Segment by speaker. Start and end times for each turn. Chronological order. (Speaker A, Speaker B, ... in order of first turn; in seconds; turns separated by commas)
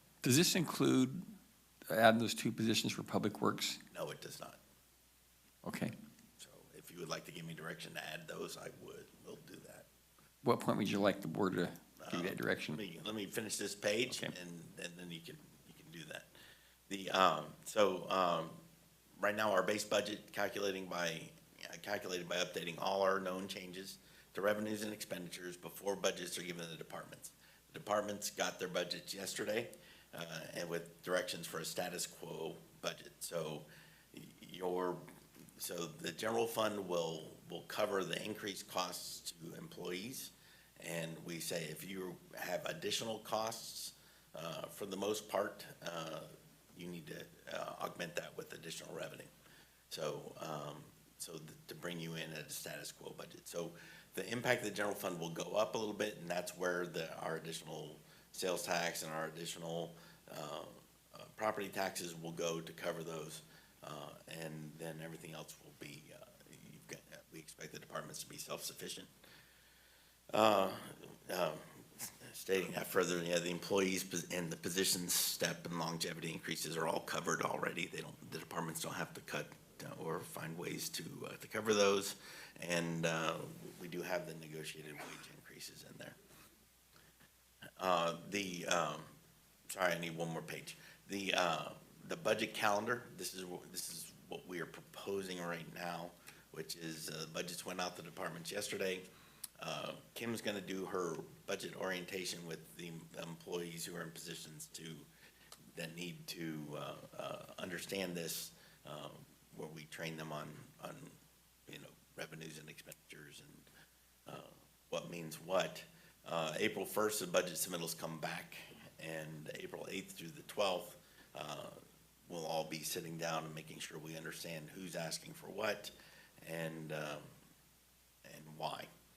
Speaker A: 0.2-1.3, Speaker A: 1.9-3.8, Speaker B: 3.9-4.6, Speaker A: 5.6-5.9, Speaker B: 6.4-9.9, Speaker A: 10.4-12.8, Speaker B: 12.0-16.3, Speaker A: 14.1-14.3, Speaker B: 16.9-18.6, Speaker B: 19.2-35.0, Speaker B: 35.6-49.3, Speaker B: 49.9-69.1, Speaker B: 70.3-86.1, Speaker B: 87.8-89.1, Speaker B: 89.7-99.0, Speaker B: 99.6-105.1, Speaker B: 105.7-111.1, Speaker B: 111.7-113.7, Speaker B: 114.3-127.3, Speaker B: 128.2-128.9